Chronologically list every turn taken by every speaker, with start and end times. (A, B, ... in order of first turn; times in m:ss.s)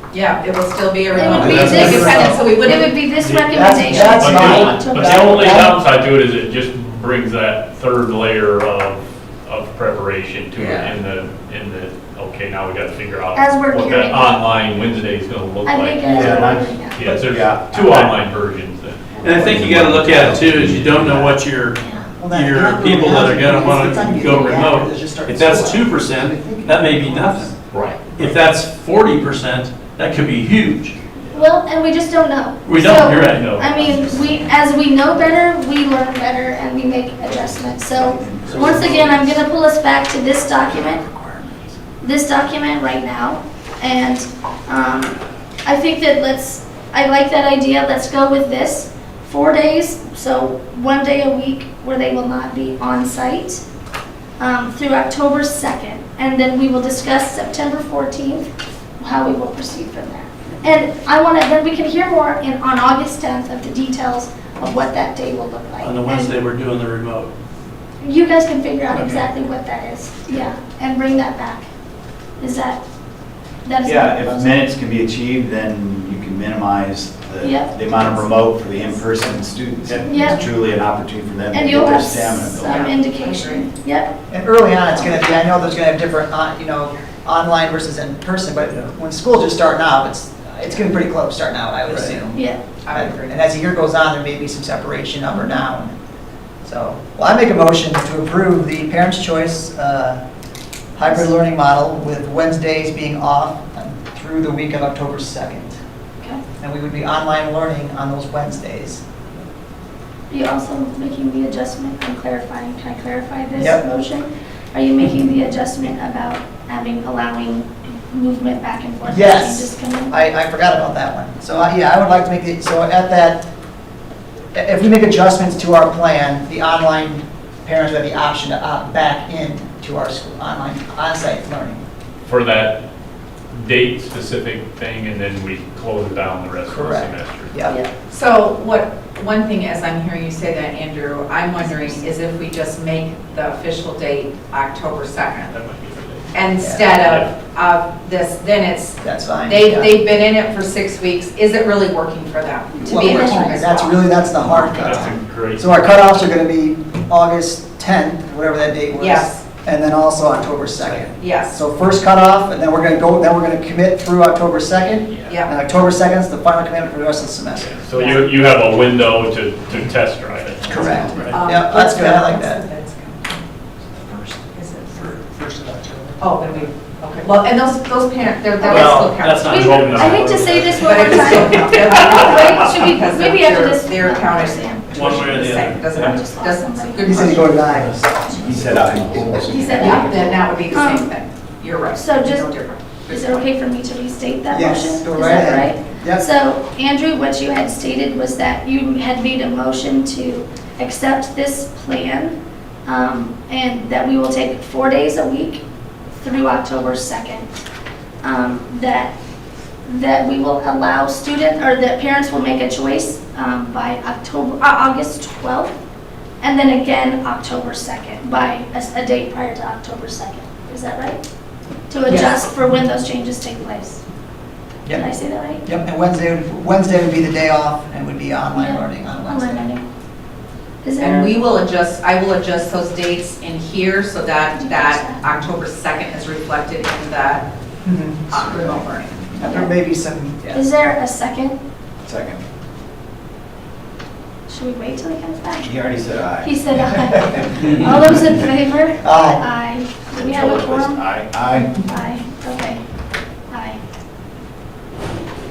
0:00.1-0:03.1 A
0:01.1-0:05.7 B
0:01.2-0:02.7 C
0:01.3-0:02.4 D
0:03.3-0:04.0 D
0:03.4-0:05.8 C
0:04.0-0:19.5 E
0:10.6-0:10.9 C
0:13.3-0:14.6 B
0:15.6-0:17.1 B
0:16.1-0:18.2 F
0:19.2-0:21.1 F
0:19.2-0:27.5 D
0:19.3-0:21.4 C
0:21.8-0:22.2 B
0:22.2-0:27.5 C
0:24.2-0:24.7 B
0:27.7-0:28.4 E
0:28.2-0:31.0 D
0:31.3-0:41.0 B
0:32.6-0:33.5 D
0:33.3-0:34.2 E
0:37.4-0:39.3 F
0:38.4-0:39.2 D
0:42.0-0:53.6 B
0:54.4-0:58.5 B
0:59.0-1:06.4 B
1:05.8-1:07.3 D
1:08.0-1:11.6 B
1:12.4-1:12.8 B
1:13.6-1:14.6 B
1:13.8-1:22.9 F
1:17.4-1:17.8 B
1:20.1-1:20.4 B
1:21.5-1:24.1 B
1:22.6-1:23.7 A
1:24.3-1:32.4 C
1:32.3-1:32.6 B
1:32.8-1:33.3 A
1:32.9-1:35.9 C
1:36.6-1:40.2 C
1:41.0-1:45.8 C
1:46.6-1:49.0 C
1:50.3-2:00.2 B
1:53.6-1:53.8 C
1:59.1-2:03.4 C
2:04.6-2:11.8 C
2:12.2-2:12.8 E
2:13.5-2:17.5 E
2:16.7-2:17.8 C
2:17.6-2:17.9 B
2:18.1-2:25.6 A
2:21.6-2:22.1 B
2:25.5-2:26.4 E
2:26.3-2:34.3 A
2:26.6-2:26.9 C
2:26.9-2:27.3 E
2:29.0-2:29.9 C
2:32.8-2:47.7 C
2:32.9-2:33.6 B
2:34.4-2:34.9 B
2:34.6-2:35.7 E
2:39.0-2:39.4 A
2:41.1-2:41.6 A
2:45.1-2:45.4 E
2:47.6-2:51.4 E
2:47.9-2:48.3 A
2:50.7-2:52.7 C
2:51.2-2:53.4 A
2:54.3-2:55.2 A
2:55.0-2:56.1 D
2:56.2-3:00.2 A
2:58.6-2:58.9 B
2:58.7-3:01.9 D
2:59.5-3:05.0 B
2:59.5-3:00.8 E
3:00.8-3:07.3 A
3:04.9-3:06.2 D
3:06.0-3:11.1 B
3:07.0-3:09.9 C
3:08.4-3:10.2 F
3:09.7-3:13.5 A
3:11.9-3:12.5 B
3:13.1-3:22.4 B
3:14.5-3:16.3 C
3:22.9-3:25.6 B
3:26.2-3:27.5 B
3:28.2-3:29.1 B
3:29.9-3:35.8 B
3:36.4-3:41.2 B
3:41.9-3:44.0 B
3:42.1-3:42.4 C
3:44.9-3:45.6 B
3:45.6-3:49.7 C
3:48.5-3:49.9 B
3:50.8-3:51.4 B
3:51.0-3:57.5 A
3:54.5-3:55.2 B
3:57.8-3:58.6 C
3:58.3-3:59.4 A
3:59.4-4:00.6 C
3:59.5-3:59.7 B
4:00.5-4:01.6 B
4:02.0-4:02.4 F
4:04.5-4:05.8 B
4:05.6-4:08.5 F
4:06.4-4:12.8 B
4:09.0-4:09.4 C
4:10.1-4:11.7 F
4:13.5-4:13.8 B